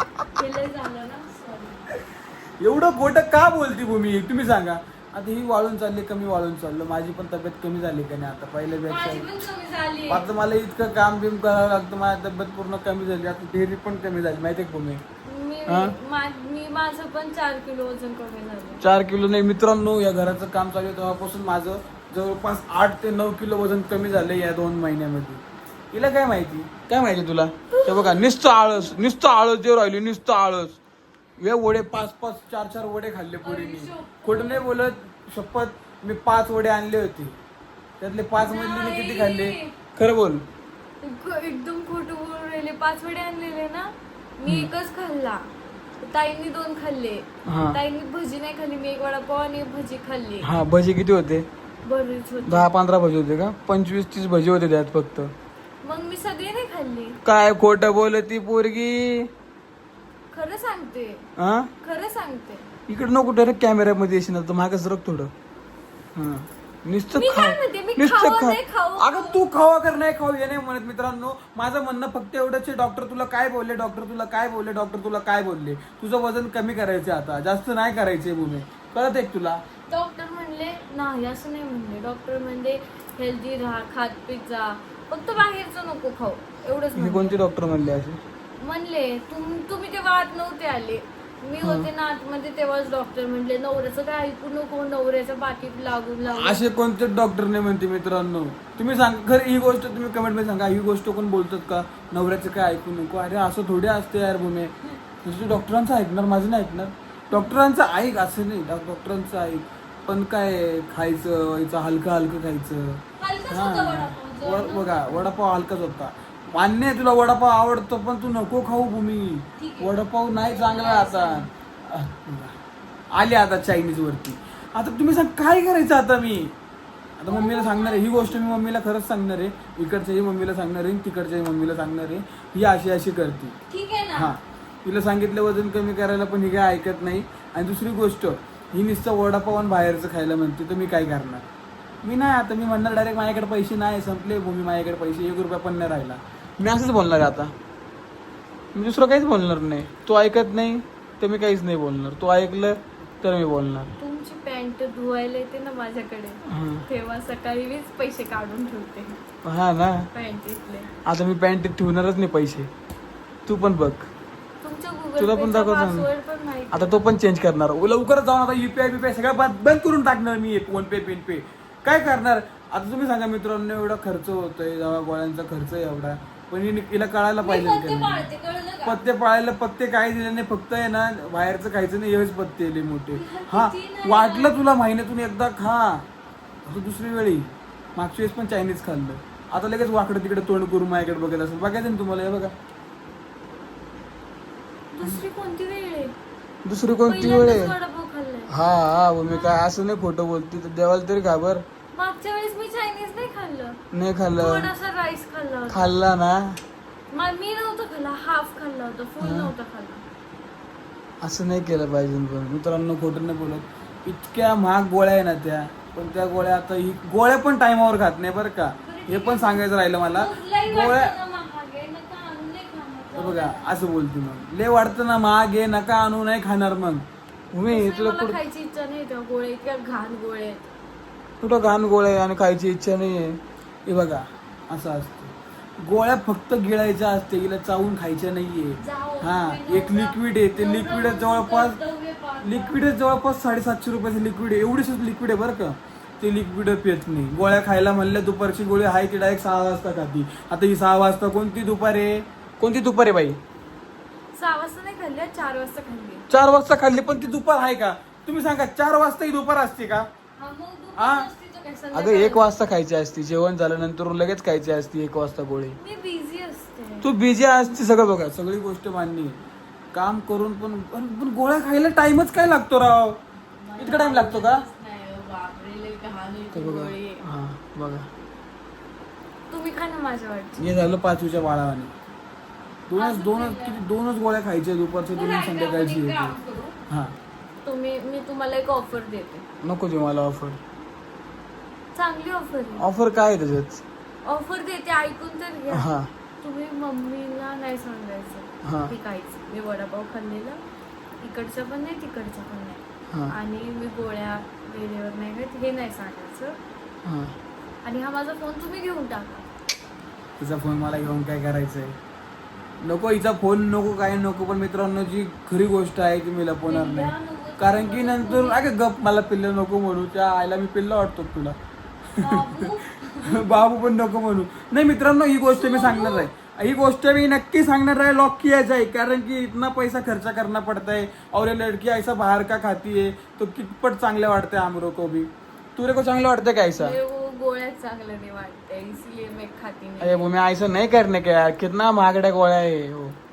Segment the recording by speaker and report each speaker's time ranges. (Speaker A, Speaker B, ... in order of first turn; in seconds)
Speaker A: 0.4-1.8, 8.8-10.3, 15.3-18.8, 27.7-28.2, 33.4-34.7, 38.4-39.8, 41.0-45.5, 46.0-50.5, 51.9-52.8, 55.8-57.2, 60.3-61.3, 61.8-62.7, 67.2-69.4, 79.9-87.4, 88.6-96.7, 113.2-115.3, 119.6-121.5, 127.3-128.3, 133.7-134.3, 154.0-159.2, 160.1-160.9, 164.6-167.1, 177.4-179.0, 183.1-184.6, 194.9-196.2, 197.1-198.5, 199.2-199.6, 201.9-203.8, 204.4-205.9, 207.1-210.1, 218.8-223.8, 227.7-230.7, 238.8-242.8, 254.3-256.3, 260.4-262.5, 265.8-267.1, 273.6-277.2, 279.5-280.7, 282.9-283.9, 285.1-286.8, 287.6-289.4, 291.9-292.9, 294.2-295.9, 296.4-300.6, 301.2-306.6, 307.8-309.5, 316.7-318.6, 322.2-323.7, 325.4-326.3, 336.8-340.3
Speaker B: 2.6-9.3, 10.1-15.0, 15.7-15.9, 18.8-30.8, 31.4-37.4, 38.0-40.4, 47.5-47.8, 50.4-51.5, 52.5-55.3, 57.2-59.3, 61.4-61.7, 62.9-65.3, 66.2-79.6, 87.0-88.2, 91.6-91.9, 96.3-122.6, 123.2-126.5, 127.2-133.6, 134.2-141.5, 142.0-147.5, 148.8-153.9, 156.5-156.8, 159.4-160.1, 161.1-162.7, 163.5-164.1, 165.2-166.1, 166.7-178.3, 178.8-186.1, 186.7-192.5, 196.7-197.8, 198.5-201.6, 203.9-204.7, 205.7-206.6, 209.2-209.5, 211.2-221.2, 223.2-228.4, 231.4-241.8, 242.4-253.4, 256.3-260.1, 261.0-261.3, 261.9-265.8, 267.0-269.4, 269.9-273.2, 273.8-274.6, 276.5-278.1, 280.6-281.9, 282.9-286.4, 286.9-287.1, 289.6-290.6, 292.8-293.8, 295.7-296.1, 298.6-298.9, 307.1-307.3, 310.4-312.0, 312.8-321.6, 322.2-322.7, 323.2-337.0, 340.0-343.2